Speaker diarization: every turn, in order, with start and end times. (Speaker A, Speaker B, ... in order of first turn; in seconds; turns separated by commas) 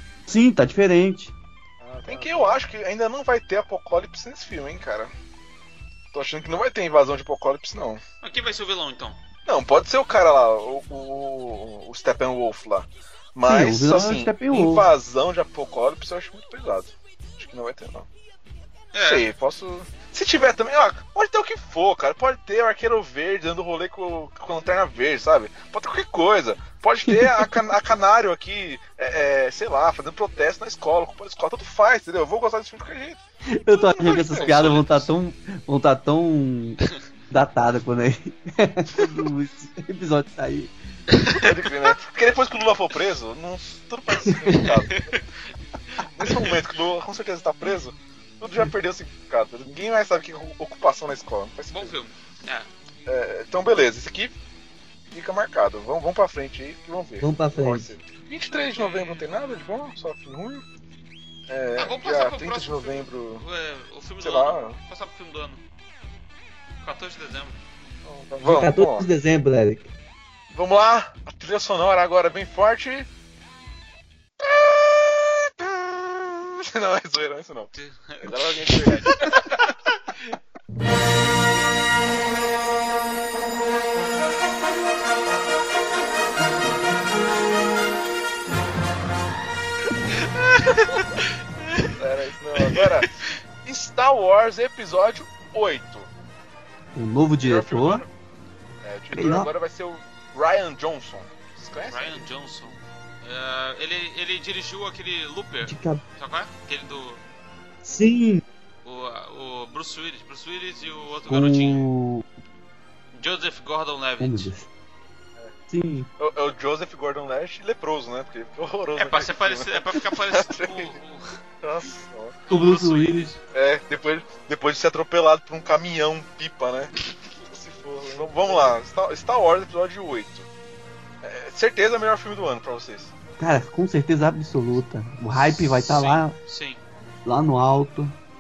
Speaker A: 0.3-1.3, Speaker B: 1.8-5.1, Speaker B: 6.1-8.0, Speaker C: 8.2-9.2, Speaker B: 9.5-18.1, Speaker A: 13.4-14.9, Speaker C: 18.9-19.3, Speaker B: 19.0-33.2, Speaker A: 27.1-27.5, Speaker A: 33.5-40.7, Speaker B: 33.9-34.6, Speaker C: 34.1-35.1, Speaker C: 41.1-41.5, Speaker B: 41.3-45.2, Speaker A: 44.3-44.6, Speaker C: 44.5-46.5, Speaker B: 46.2-52.0, Speaker C: 51.7-52.7, Speaker B: 53.1-54.4, Speaker B: 55.1-60.6, Speaker A: 57.2-57.9, Speaker C: 58.8-59.3, Speaker B: 61.5-63.4, Speaker C: 61.8-65.6, Speaker B: 64.2-64.8, Speaker C: 66.8-67.6, Speaker B: 68.0-69.1, Speaker A: 68.4-69.9, Speaker B: 70.5-73.1, Speaker B: 74.4-79.7, Speaker C: 77.7-80.3, Speaker C: 90.2-92.0, Speaker B: 92.0-96.1, Speaker C: 92.7-93.4, Speaker A: 97.0-98.0, Speaker B: 97.4-98.1, Speaker B: 98.8-102.2, Speaker A: 99.1-99.5, Speaker C: 101.9-107.2, Speaker A: 105.7-106.0, Speaker A: 107.8-108.4, Speaker C: 108.8-111.9, Speaker A: 111.3-112.3, Speaker C: 113.2-114.5, Speaker A: 114.2-114.7, Speaker A: 115.7-116.1, Speaker B: 116.2-121.0, Speaker C: 119.0-121.4, Speaker B: 121.6-122.4, Speaker C: 122.5-123.4, Speaker A: 122.5-123.3, Speaker B: 123.5-126.9, Speaker B: 127.5-130.5, Speaker B: 131.2-133.1, Speaker A: 133.4-136.4, Speaker C: 135.4-136.8, Speaker A: 137.2-138.2